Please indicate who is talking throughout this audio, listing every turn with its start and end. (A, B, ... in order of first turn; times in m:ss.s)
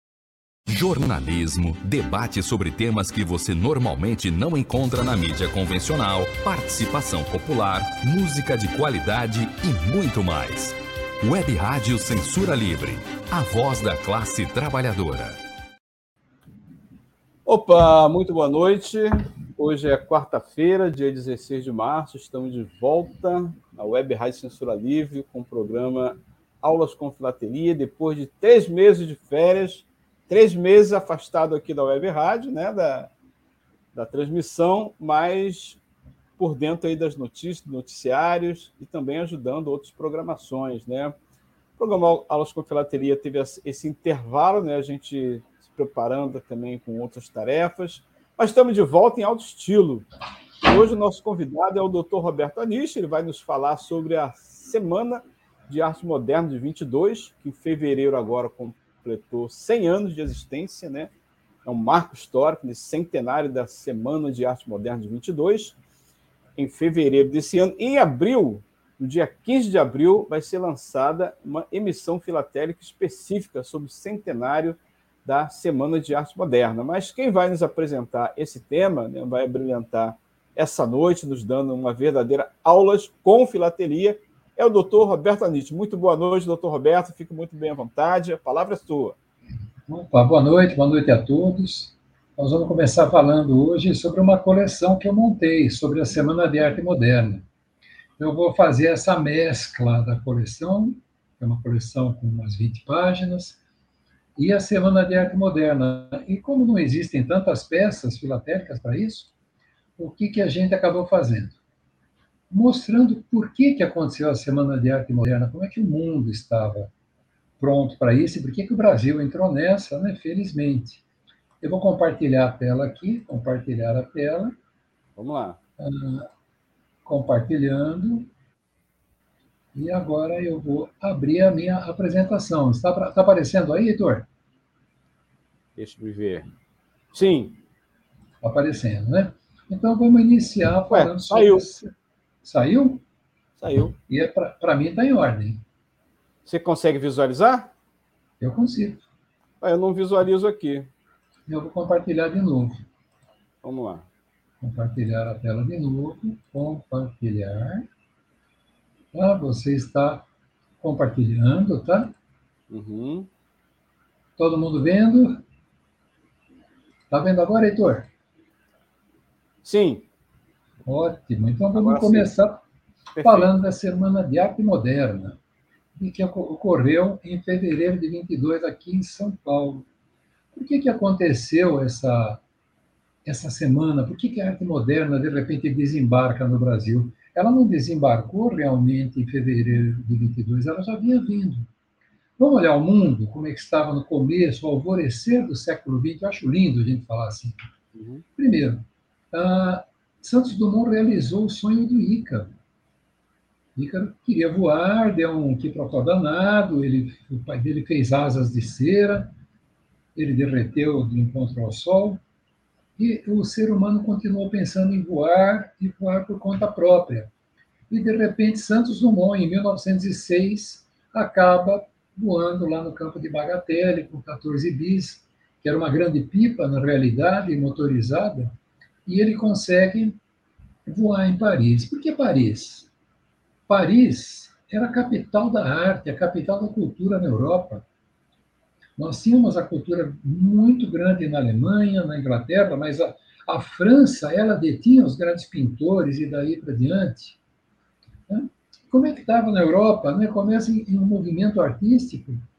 0:00.7-0:15.4 A
0:17.4-0:33.1 B
0:33.9-0:35.8 B
0:36.4-0:41.1 B
0:41.8-0:50.1 B
0:50.6-1:01.1 B
1:01.6-1:05.7 B
1:06.6-1:29.2 B
1:29.9-1:37.4 C
1:38.2-1:43.6 C
1:44.4-1:49.3 C
1:50.0-1:51.6 C
1:52.5-1:56.9 C
1:57.6-2:01.0 C
2:01.6-2:04.5 C
2:05.2-2:05.6 B
2:05.8-2:06.3 C
2:07.0-2:08.3 C
2:09.7-2:14.3 C
2:15.8-2:16.5 B
2:17.1-2:17.6 B
2:18.4-2:21.9 C
2:20.9-2:21.6 B
2:22.4-2:23.0 C
2:23.6-2:24.0 B
2:24.1-2:25.6 C
2:26.4-2:27.7 B
2:28.4-2:29.0 C
2:29.6-2:30.9 B
2:31.5-2:32.8 C
2:33.6-2:34.0 B
2:34.6-2:37.8 C
2:39.1-2:40.3 C
2:40.8-2:42.1 C
2:42.7-2:43.3 B
2:44.4-2:45.4 C
2:47.1-2:48.1 C
2:49.6-2:50.0 B
2:50.8-2:52.6 C
2:51.7-2:52.3 B
2:53.2-2:53.5 B
2:53.2-2:55.4 C
2:56.0-2:59.8 C
3:00.5-3:02.4 C
3:03.2-3:11.7 C
3:12.4-3:17.6 C
3:17.9-3:18.2 B
3:18.4-3:22.5 C
3:23.8-3:29.3 C
3:30.2-3:32.2 C
3:33.0-3:37.3 C
3:37.9-3:48.5 C
3:49.0-3:50.2 C
3:50.8-3:52.9 C
3:53.7-3:57.8 C
3:59.0-4:07.4 C
4:08.3-4:12.4 C